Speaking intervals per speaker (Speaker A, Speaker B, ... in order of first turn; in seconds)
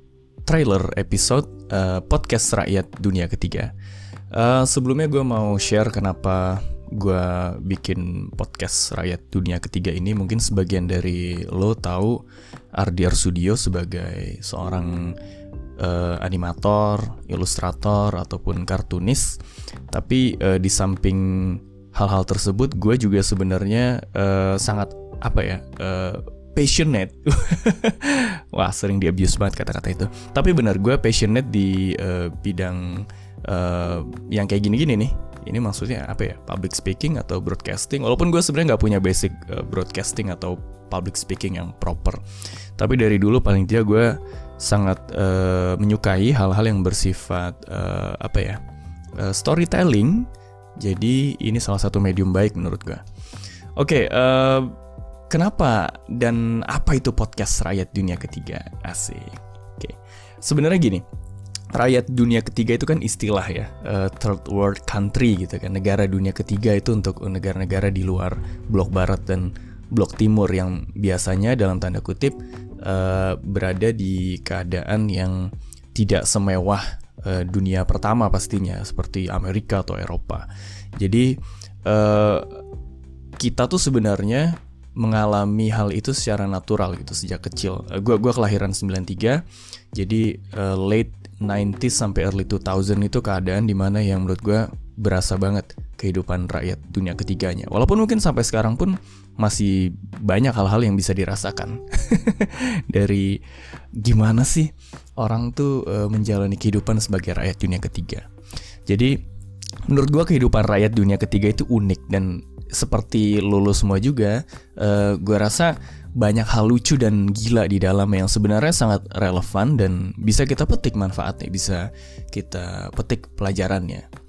Speaker A: 0.5-3.7, 4.3-15.2, 15.8-42.2, 42.8-48.6, 49.2-53.0, 53.8-54.7, 55.3-61.0, 61.7-80.5, 81.0-82.6, 83.4-103.4, 104.0-108.3, 108.9-109.2, 109.9-124.1